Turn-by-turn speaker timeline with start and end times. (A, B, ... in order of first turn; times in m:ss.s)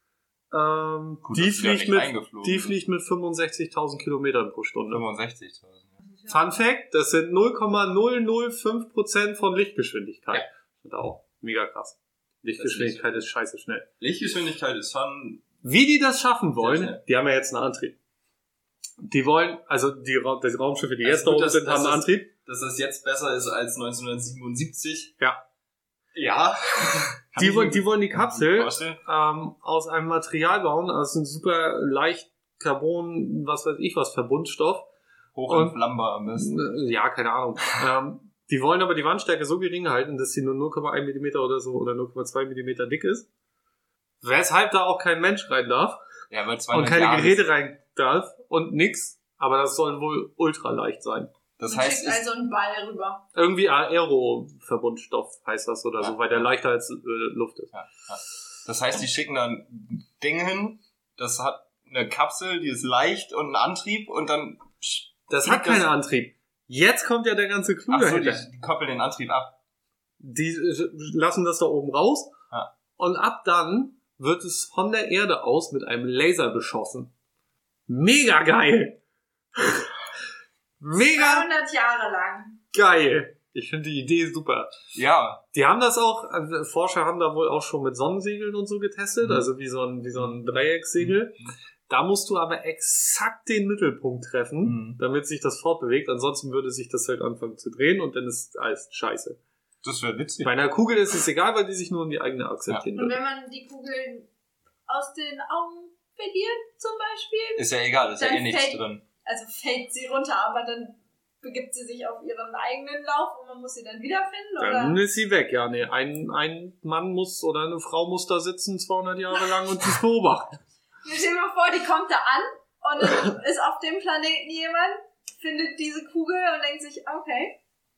0:00.5-0:05.0 A
0:01.2-0:02.8 B
0:04.9-0:06.0 B
0:06.3-0:13.9 A
0:12.6-0:13.3 B
0:14.0-0:15.4 B
0:15.6-0:18.0 A
0:16.6-0:17.0 B
0:19.0-0:22.3 A
0:21.0-0:25.2 B
0:26.1-0:29.0 B
0:27.4-0:34.9 A
0:35.4-0:36.6 B
0:35.5-0:35.8 A
0:36.4-0:43.3 A
0:44.2-0:46.0 A
0:46.3-0:47.5 B
0:46.7-0:51.3 A
0:51.6-0:52.2 B
0:51.7-0:53.2 C
0:53.3-0:57.7 A
0:56.0-0:56.5 B
0:57.7-1:05.9 B
1:05.3-1:08.4 A
1:07.9-1:09.6 B
1:10.2-1:12.4 A
1:13.0-1:17.1 A
1:17.9-1:19.0 A
1:19.6-1:19.9 A
1:20.8-1:21.5 A
1:21.0-1:22.6 C
1:22.7-1:24.8 A
1:24.9-1:25.4 B
1:25.5-1:39.4 A
1:29.2-1:29.5 B
1:31.0-1:31.5 B
1:34.6-1:35.0 B
1:39.8-1:40.5 B
1:40.4-1:43.2 A
1:43.0-1:44.3 C
1:44.9-1:55.0 C
1:47.6-1:49.0 B
1:54.6-2:00.6 A
2:01.0-2:07.6 C